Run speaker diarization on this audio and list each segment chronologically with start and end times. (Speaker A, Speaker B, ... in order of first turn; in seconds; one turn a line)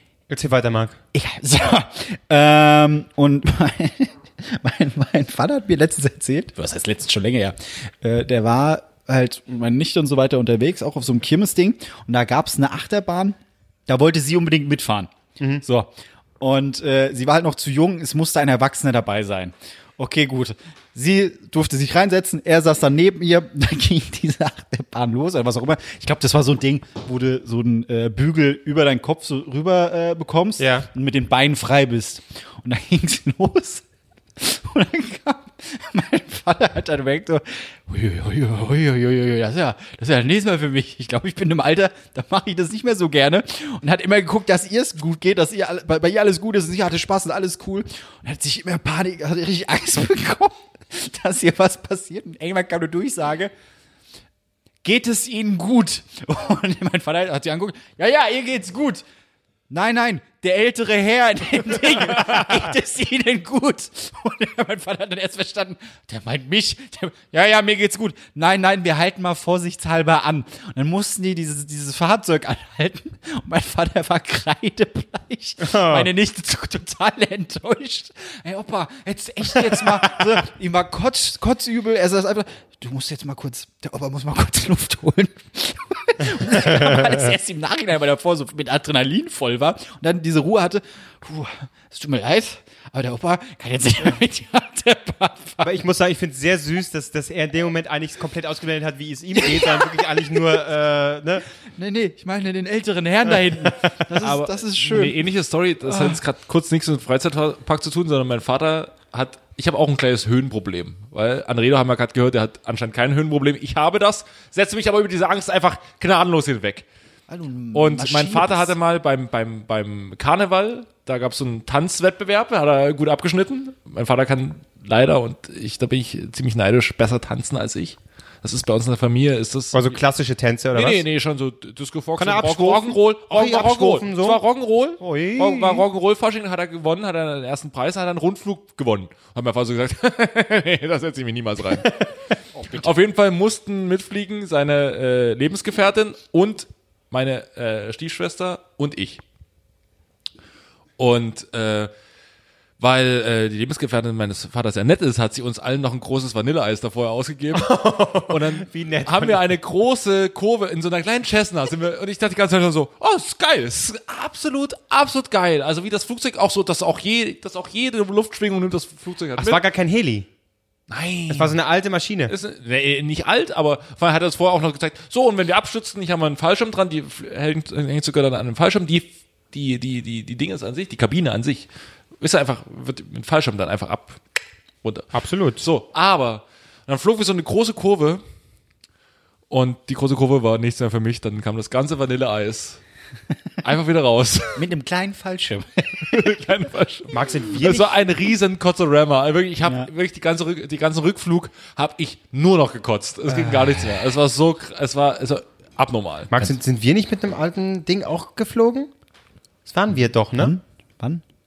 Speaker A: 0.3-1.0
Speaker B: 1.1-15.1
Speaker A: 15.4-15.6
Speaker B: 15.6-33.8
Speaker A: 30.6-30.9
Speaker B: 34.4-53.5
Speaker B: 54.8-59.0
Speaker B: 59.7-95.7
Speaker A: 75.6-76.1
Speaker A: 86.6-87.2
Speaker A: 95.6-101.5
Speaker B: 99.3-100.0
Speaker B: 101.8-105.2
Speaker C: 104.2-116.8
Speaker B: 105.9-106.2
Speaker B: 117.3-118.7
Speaker C: 117.7-130.0
Speaker A: 129.7-131.0
Speaker C: 130.7-142.1
Speaker A: 132.2-134.4
Speaker A: 135.0-135.8
Speaker B: 142.6-142.9
Speaker C: 142.7-149.2
Speaker C: 151.0-151.9
Speaker C: 152.8-169.6
Speaker A: 157.5-159.4
Speaker A: 169.3-170.3
Speaker C: 170.9-171.6
Speaker A: 171.3-172.3
Speaker C: 172.3-181.7
Speaker C: 182.2-184.2
Speaker A: 185.1-185.6
Speaker C: 185.6-188.2
Speaker C: 189.5-192.8
Speaker C: 193.6-194.6
Speaker B: 194.6-196.3
Speaker C: 196.1-206.3
Speaker A: 197.1-197.9
Speaker A: 203.3-203.8
Speaker A: 206.3-208.9
Speaker A: 209.7-210.5
Speaker B: 210.4-211.2